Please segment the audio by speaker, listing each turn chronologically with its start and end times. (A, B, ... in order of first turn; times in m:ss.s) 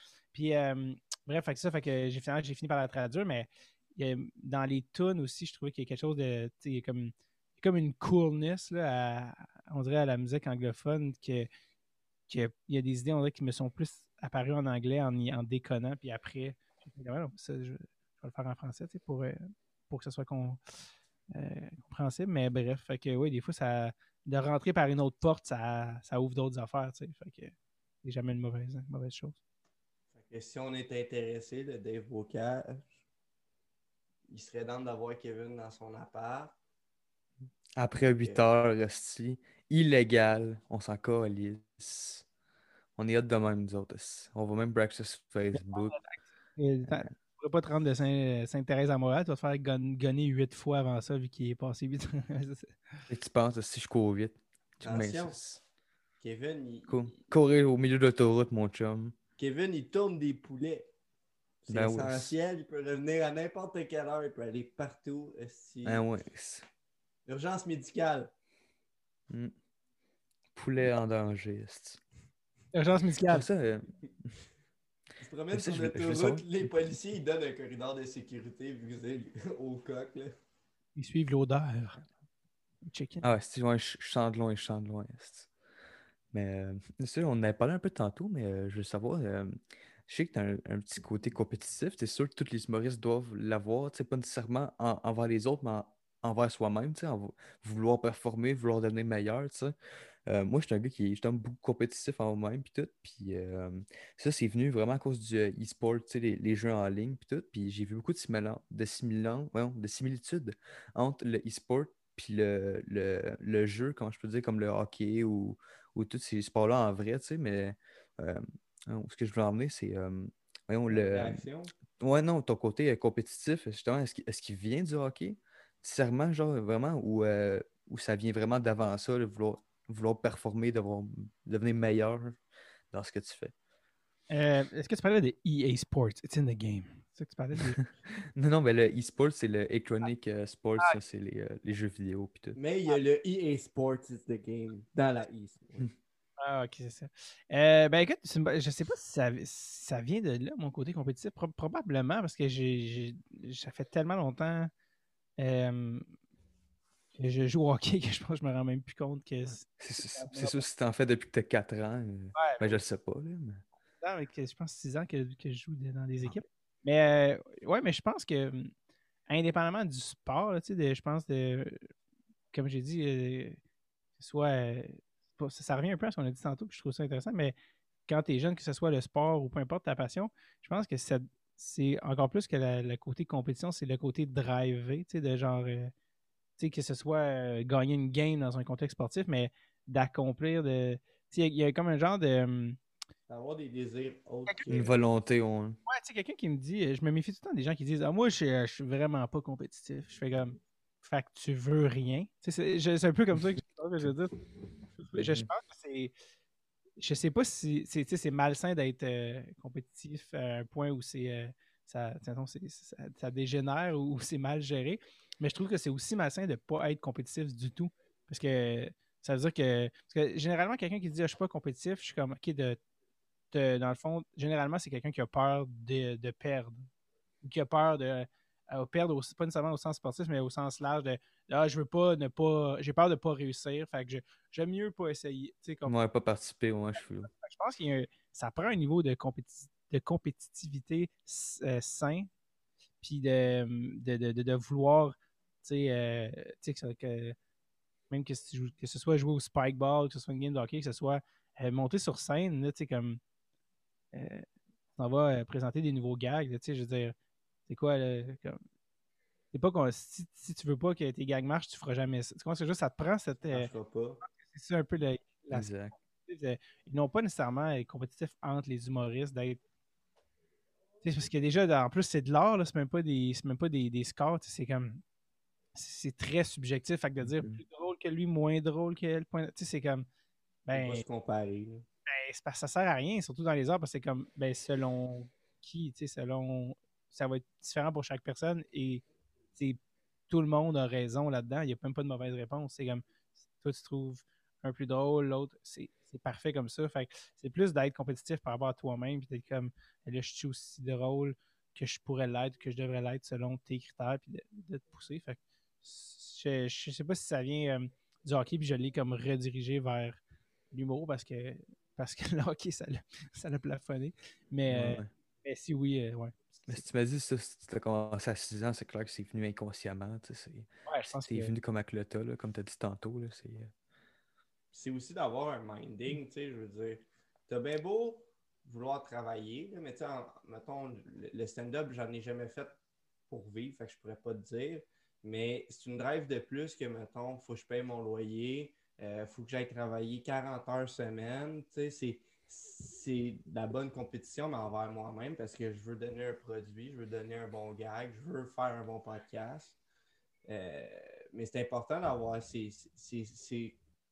0:00.3-0:11.5 A
0:12.3-0:20.6 A
0:21.3-0:29.4 A
0:30.1-0:32.9 B
0:34.3-0:36.6 B
0:37.8-0:42.2 C
0:38.0-0:38.4 B
0:43.0-0:46.0 C
0:45.5-0:52.8 A
0:53.1-0:55.6 C
0:54.8-0:55.5 B
0:56.2-0:57.2 B
0:56.9-0:59.1 C
0:59.4-1:00.9 B
1:01.6-1:06.0 B
1:01.7-1:02.3 C
1:05.8-1:06.7 C
1:07.2-1:08.3 B
1:10.5-1:12.0 C
1:12.7-1:13.5 A
1:13.3-1:14.3 C
1:15.2-1:20.3 B
1:15.5-1:16.7 C
1:21.0-1:22.1 A
1:22.8-1:23.2 A
1:23.2-1:25.5 C
1:26.3-1:39.7 C
1:40.2-2:01.4 C
2:00.9-2:01.7 B
2:02.0-2:12.4 C
2:12.9-2:13.5 C
2:14.3-2:17.8 A
2:18.4-2:22.6 C
2:22.6-2:25.9 B
2:26.4-2:34.7 A
2:35.4-2:36.1 A
2:37.1-2:40.6 A
2:39.8-2:43.6 C
2:42.3-2:42.8 A
2:44.0-2:48.7 A
2:49.3-2:51.8 A
2:52.5-2:53.6 A
2:54.2-2:57.6 A
2:58.1-3:05.9 A
3:06.6-3:12.8 A
3:13.3-3:15.0 B
3:14.7-3:15.8 C
3:15.8-3:24.3 A
3:25.1-3:26.1 A
3:25.1-3:25.5 C
3:27.0-3:42.8 A
3:43.5-3:46.9 A
3:47.4-3:55.9 A
3:55.8-3:57.3 C
3:57.2-4:02.3 A
4:03.0-4:07.4 A
4:08.1-4:13.2 A
4:14.1-4:14.4 A
4:15.0-4:17.1 A
4:17.7-4:18.6 A
4:19.5-4:23.7 A
4:23.5-4:24.2 B
4:24.2-4:29.6 A
4:25.5-4:25.9 C
4:31.0-4:35.0 A
4:35.7-4:40.0 A
4:37.2-4:37.6 C
4:40.6-4:41.0 A
4:40.7-4:41.8 B
4:42.1-4:49.0 A
4:50.3-5:10.2 A
5:10.7-5:16.8 A
5:14.7-5:15.1 C
5:16.7-5:20.7 C
5:20.9-5:21.5 A
5:21.2-5:23.7 C
5:24.7-5:32.8 B
5:33.3-5:49.8 B
5:50.5-5:53.8 B